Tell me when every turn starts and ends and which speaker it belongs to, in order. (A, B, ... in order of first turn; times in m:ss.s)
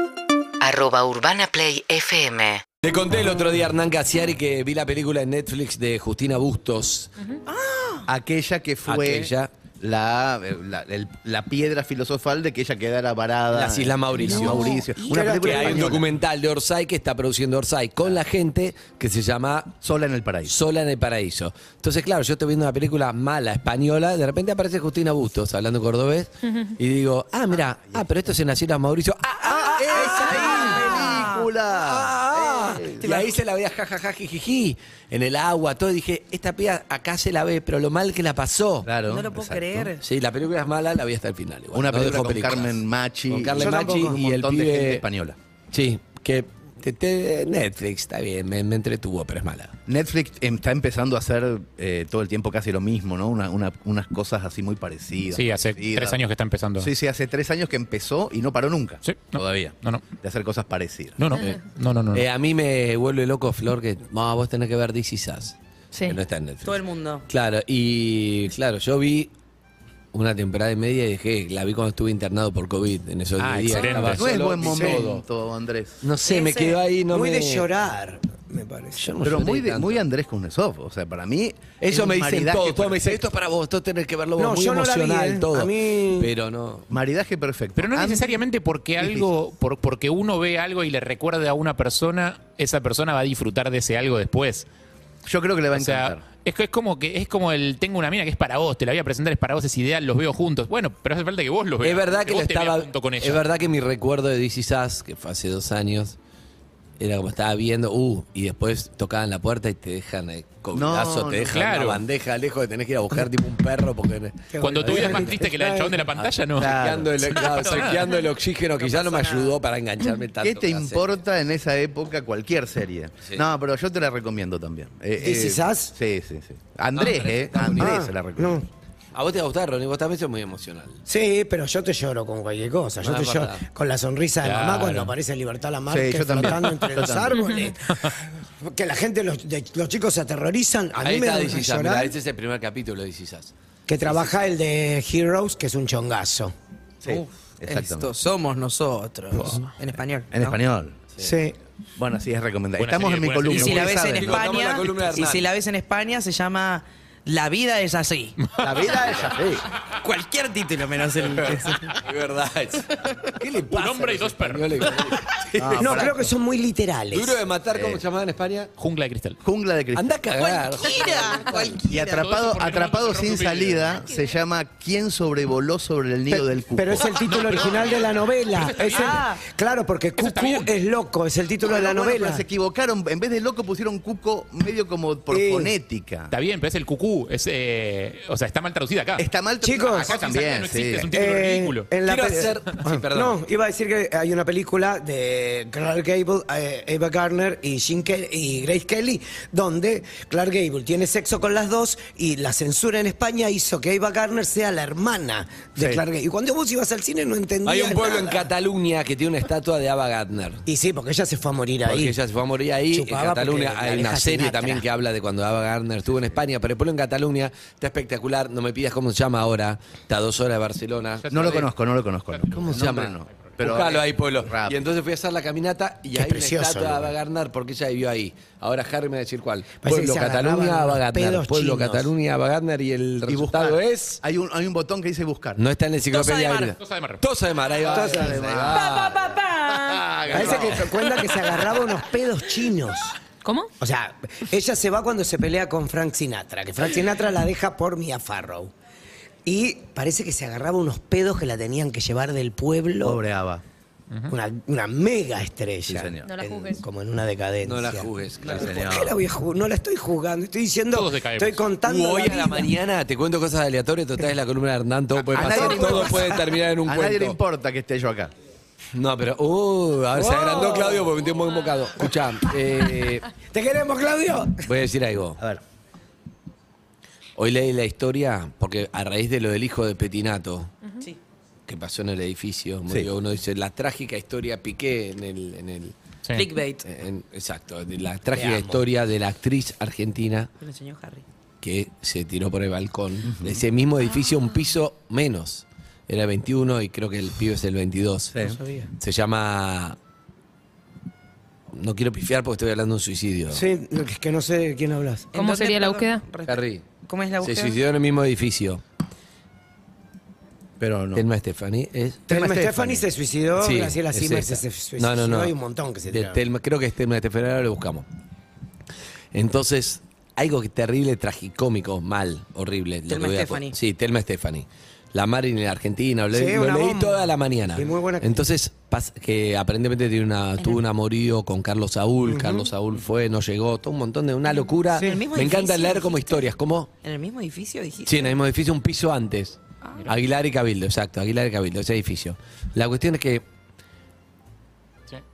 0:00.6-0:02.6 A
0:02.8-0:07.2 B
0:07.5-0:08.0 C
0:08.0-0:16.0 D
0:08.8-0:09.5 B
0:13.5-0:19.8 B
0:14.2-0:16.0 E
0:19.8-0:20.5 D
0:20.4-0:31.1 B
0:29.4-0:33.3 D
0:29.9-0:31.5 C
0:30.1-0:30.7 E
0:31.7-0:38.9 B
0:38.8-0:39.9 D
0:39.0-0:40.1 C
0:40.0-0:45.0 B
0:41.7-0:45.4 D
0:43.6-0:44.2 E
0:45.7-0:49.8 B
0:49.8-0:56.2 D
0:55.3-0:56.9 F
0:56.8-1:01.4 D
0:59.0-1:00.0 F
1:01.2-1:02.3 F
1:02.1-1:09.3 B
1:05.9-1:06.2 G
1:06.6-1:07.2 C
1:10.1-1:15.2 B
1:13.4-1:14.3 F
1:14.1-1:16.0 D
1:14.6-1:15.0 E
1:16.0-1:17.6 B
1:16.2-1:16.8 C
1:17.1-1:19.1 E
1:19.0-1:20.0 B
1:19.2-1:23.2 D
1:21.8-1:26.9 B
1:24.4-1:26.3 E
1:26.9-1:28.4 D
1:27.8-1:34.7 F
1:29.0-1:29.3 D
1:35.2-1:36.2 D
1:35.7-1:43.4 F
1:41.8-1:46.2 B
1:47.0-1:55.2 B
1:50.7-1:51.6 D
1:51.5-1:52.0 F
1:54.5-1:56.1 E
1:54.6-1:58.1 F
1:56.2-2:01.1 B
1:56.5-1:57.2 D
1:57.5-1:58.0 C
1:58.8-1:59.6 C
2:00.4-2:08.6 D
2:05.2-2:05.9 E
2:06.9-2:08.0 B
2:07.8-2:08.6 E
2:09.1-2:11.0 B
2:11.1-2:22.1 E
2:13.0-2:13.6 B
2:14.4-2:15.1 F
2:15.9-2:17.6 D
2:21.0-2:24.4 B
2:23.9-2:26.5 E
2:27.0-2:28.1 D
2:27.0-2:30.6 C
2:30.3-2:31.0 D
2:31.2-2:31.6 E
2:32.0-2:34.4 D
2:32.8-2:34.0 F
2:33.5-2:38.4 C
2:34.0-2:35.5 B
2:38.4-2:39.0 F
2:38.6-2:39.7 D
2:39.9-2:42.0 C
2:41.4-2:46.1 B
2:42.9-2:43.3 C
2:43.7-2:45.0 F
2:45.6-2:46.3 D
2:45.8-2:47.4 E
2:47.1-2:48.7 B
2:47.7-2:48.0 D
2:48.8-2:49.4 F
2:49.4-2:50.1 D
2:50.0-2:51.8 B
2:50.4-2:52.2 C
2:51.9-2:57.6 D
2:52.1-2:54.0 F
2:56.3-3:02.4 E
2:57.2-2:59.2 F
2:58.9-2:59.2 C
3:00.2-3:00.7 F
3:01.6-3:06.3 D
3:05.3-3:05.7 E
3:06.3-3:09.3 F
3:09.2-3:11.1 D
3:09.6-3:10.1 E
3:09.8-3:11.9 F
3:11.1-3:28.5 E
3:12.0-3:13.4 B
3:25.8-3:26.0 D
3:27.6-3:30.6 B
3:30.6-3:32.2 E
3:31.8-3:41.2 B
3:32.9-3:34.8 E
3:41.2-3:41.7 F
3:41.3-3:44.8 D
3:42.5-3:54.2 B
3:46.1-3:47.2 E
3:49.8-3:52.1 E
3:53.3-3:55.6 D
3:55.6-3:59.3 B
3:56.1-3:56.8 C
3:56.8-3:57.2 F
3:57.8-3:58.9 D
3:57.9-3:58.4 E
3:58.7-4:00.4 C
3:59.7-4:01.2 D
4:00.3-4:03.2 E
4:03.4-4:03.7 G
4:03.8-4:08.7 E
4:09.4-4:13.2 E
4:13.0-4:13.6 D
4:14.1-4:14.4 F
4:14.3-4:22.7 E
4:15.8-4:16.4 D
4:16.2-4:16.8 G
4:17.6-4:18.8 B
4:18.5-4:19.2 D
4:20.9-4:21.6 F
4:21.8-4:27.4 B
4:25.3-4:28.3 D
4:25.3-4:26.5 E
4:28.9-4:33.3 B
4:30.1-4:31.2 E
4:32.7-4:34.6 E
4:34.6-4:35.4 B
4:37.4-4:40.7 B
4:41.7-4:45.9 B
4:46.3-4:46.9 C
4:46.8-4:50.5 B
4:48.3-4:48.8 E
4:50.6-4:51.2 C
4:51.6-4:58.3 B
4:53.2-4:53.6 D
4:58.3-4:58.6 D
4:58.5-4:58.9 E
4:59.0-5:00.0 B
5:01.7-5:03.6 B
5:03.5-5:05.3 E
5:05.3-5:07.8 C
5:05.3-5:06.2 G
5:06.4-5:06.8 B
5:07.4-5:08.8 B
5:10.8-5:11.2 D
5:11.1-5:13.0 B
5:12.3-5:13.0 D
5:12.3-5:16.4 E
5:13.6-5:15.5 B
5:16.1-5:18.1 B
5:19.3-5:36.9 B
5:23.1-5:23.8 C
5:26.3-5:28.4 E
5:32.2-5:32.7 E
5:34.9-5:36.5 C
5:35.0-5:35.2 E
5:37.0-5:38.4 C
5:38.0-5:43.4 B
5:39.8-5:40.1 C